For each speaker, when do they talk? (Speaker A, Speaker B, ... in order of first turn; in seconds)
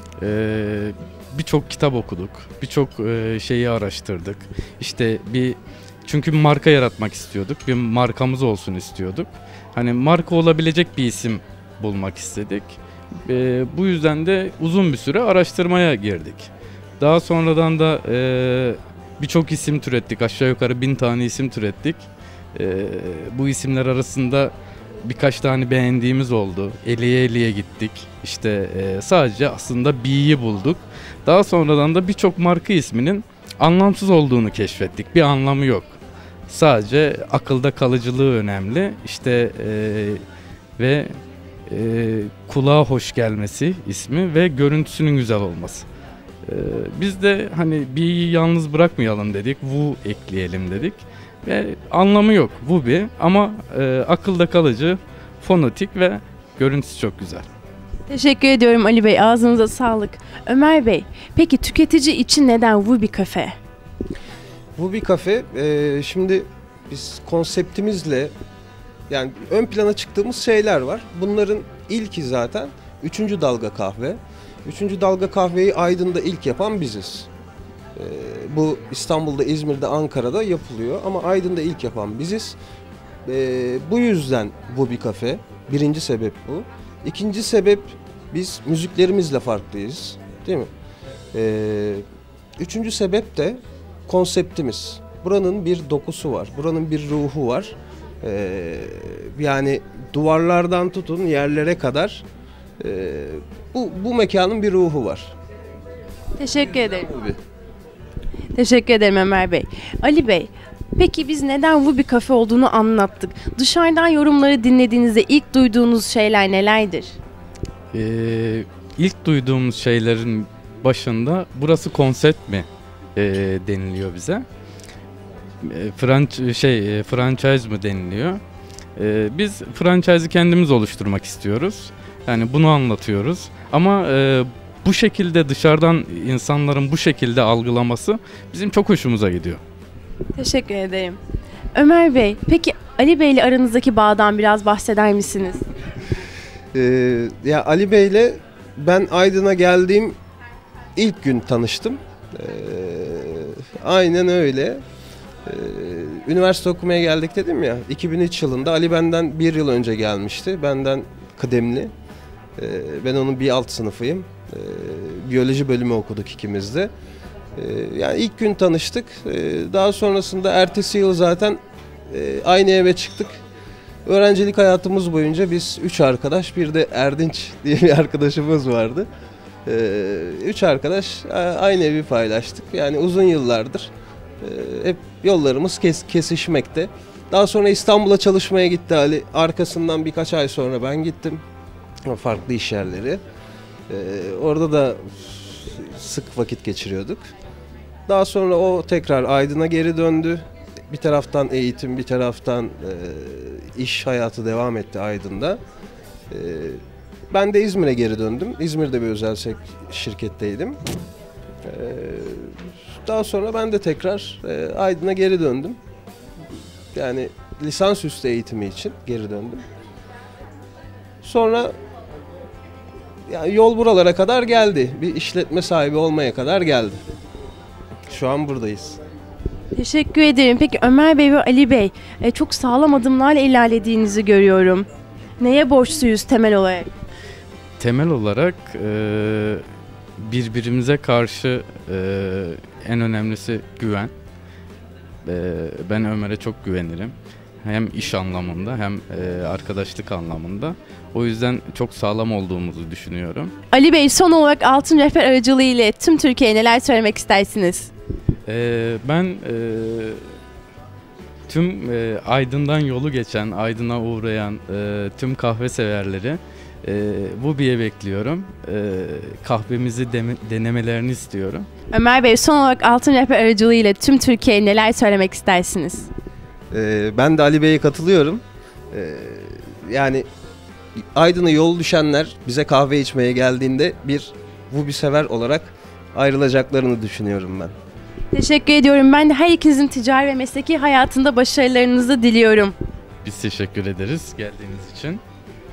Speaker A: 0.2-36.0, 36.5-40.2, 40.8-41.1, 41.7-45.9, 46.5-57.5, 117.9-124.5, 125.6-128.4, 129.0-139.6, 237.8-239.6, 240.2-244.1, 245.2-253.5, 258.5-260.2, 261.5-271.7, 293.2-295.2
Speaker B: 58.1-63.6, 106.4-107.1, 108.5-117.1, 140.4-141.2, 141.8-145.6, 229.8-234.9, 235.4-236.9, 253.7-257.9, 271.9-276.1, 288.3-292.8
Speaker C: 64.8-68.3, 69.1-77.3, 78.0-82.6, 83.3-90.7, 91.3-92.0, 92.6-102.2, 102.8-105.3, 107.0-107.4, 146.7-150.2, 151.0-154.8, 155.4-161.9, 162.6-166.9, 167.6-173.4, 174.1-179.1, 179.7-183.9, 184.4-191.4, 192.1-193.2, 193.9-197.3, 198.1-205.6, 206.3-210.8, 211.6-215.8, 216.9-219.6, 221.2-221.7, 223.3-227.0, 228.1-229.0, 276.7-280.3, 281.1-287.7